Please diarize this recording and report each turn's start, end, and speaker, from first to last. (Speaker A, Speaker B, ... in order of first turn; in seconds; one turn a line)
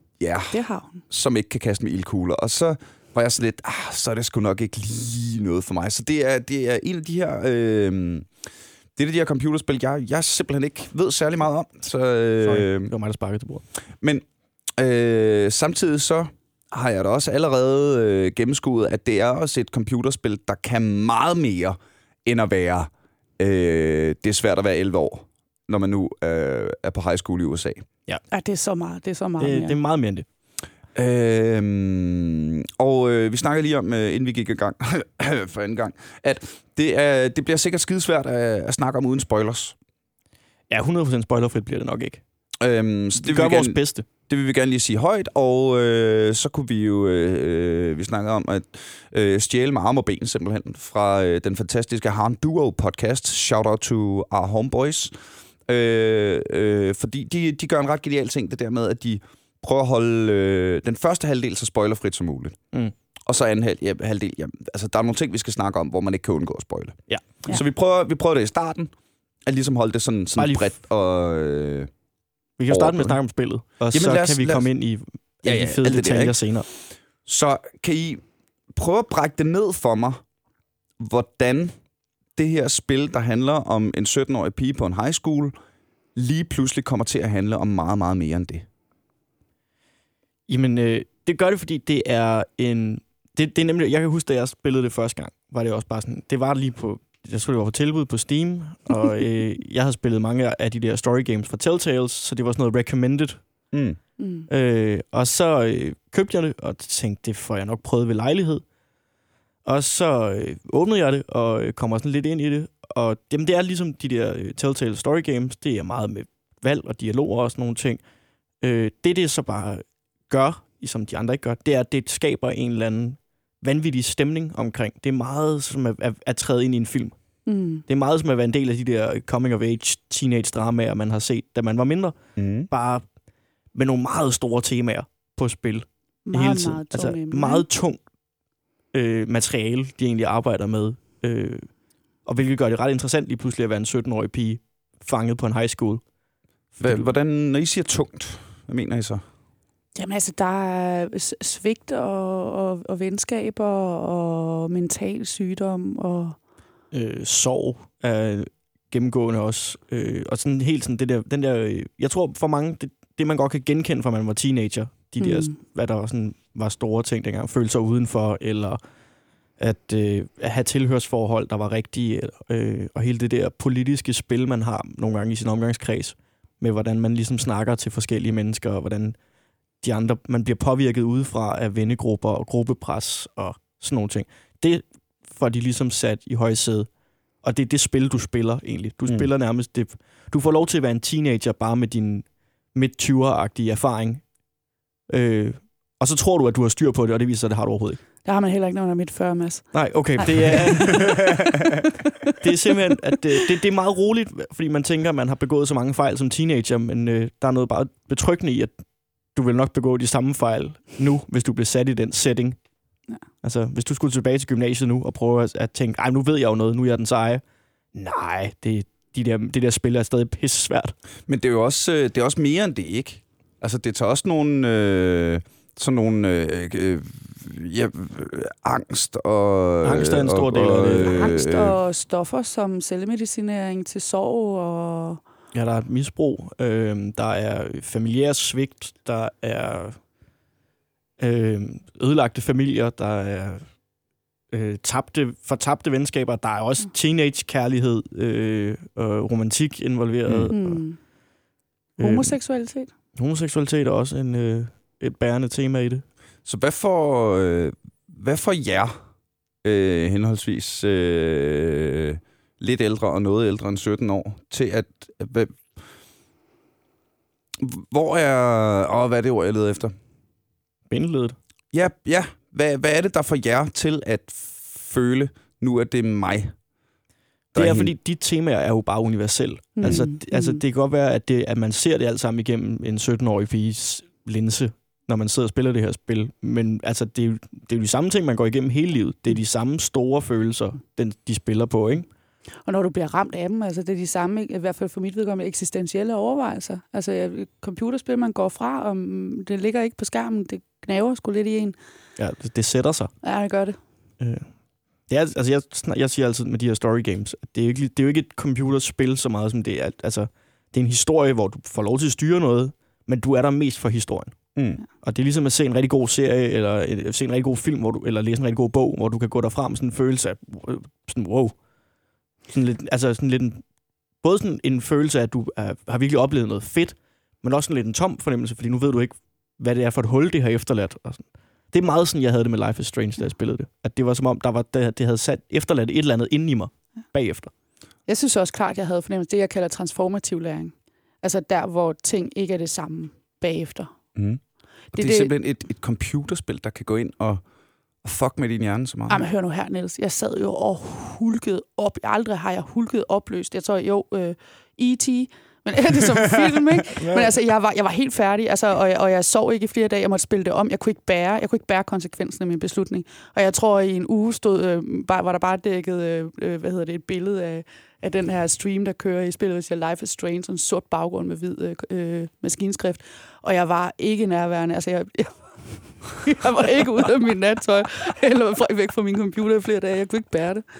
Speaker A: 0.2-8.3
Speaker B: 0.5-1.0
Speaker A: 8.9-12.9
Speaker C: 12.4-13.6
Speaker A: 14.8-27.8
Speaker B: 28.3-29.8
Speaker C: 29.4-30.2
Speaker A: 30.9-39.8
Speaker C: 40.7-42.2
Speaker A: 42.6-55.1
Speaker C: 43.2-44.1
Speaker A: 55.6-62.6
Speaker A: 63.2-68.9
Speaker A: 69.5-71.9
Speaker C: 70.4-70.7
Speaker C: 72.6-76.7
Speaker A: 72.7-73.2
Speaker A: 73.9-74.7
Speaker A: 75.4-78.2
Speaker A: 78.7-80.2
Speaker A: 81.0-81.7
Speaker A: 82.3-85.5
Speaker A: 86.1-88.7
Speaker C: 90.5-103.4
Speaker A: 103.7-104.0
Speaker B: 104.2-104.5
Speaker C: 104.5-108.6
Speaker C: 109.6-118.0
Speaker C: 118.6-127.2
Speaker B: 127.5-127.8
Speaker C: 127.9-132.2
Speaker A: 132.4-132.7
Speaker C: 132.7-133.0
Speaker C: 133.7-138.0
Speaker B: 136.2-137.7
Speaker C: 138.9-141.7
Speaker C: 142.2-146.0
Speaker C: 146.7-147.1
Speaker A: 146.8-149.2
Speaker B: 149.9-156.4
Speaker C: 156.9-168.8
Speaker B: 165.2-165.5
Speaker C: 169.6-179.2
Speaker C: 179.8-186.9
Speaker C: 187.4-194.3
Speaker C: 195.1-198.0
Speaker B: 198.2-202.4
Speaker C: 199.7-201.3
Speaker C: 202.4-208.8
Speaker C: 209.3-212.6
Speaker C: 213.4-217.4
Speaker C: 217.9-220.9
Speaker A: 221.3-231.8
Speaker C: 229.8-231.2
Speaker B: 231.1-235.2
Speaker C: 235.5-240.0
Speaker C: 241.2-243.8
Speaker C: 244.5-250.8
Speaker A: 250.3-250.5
Speaker B: 250.5-251.0
Speaker B: 252.0-252.9
Speaker C: 252.0-252.4
Speaker C: 253.2-256.0
Speaker A: 256.4-258.9
Speaker A: 259.6-265.6
Speaker A: 267.6-269.9
Speaker C: 270.9-271.4
Speaker A: 271.7-276.6
Speaker A: 277.5-277.9
Speaker C: 277.6-292.1
Speaker B: 279.8-280.6
Speaker B: 292.6-301.8
Speaker C: 302.2-303.1
Speaker B: 303.2-303.8
Speaker C: 304.2-304.5
Speaker C: 305.1-314.4
Speaker A: 314.6-314.8
Speaker C: 315.0-321.6
Speaker C: 322.5-323.7
Speaker C: 324.2-337.5
Speaker B: 338.1-343.9
Speaker A: 344.1-347.4
Speaker B: 344.9-345.3
Speaker A: 348.0-349.2
Speaker B: 349.1-380.6
Speaker C: 357.0-357.3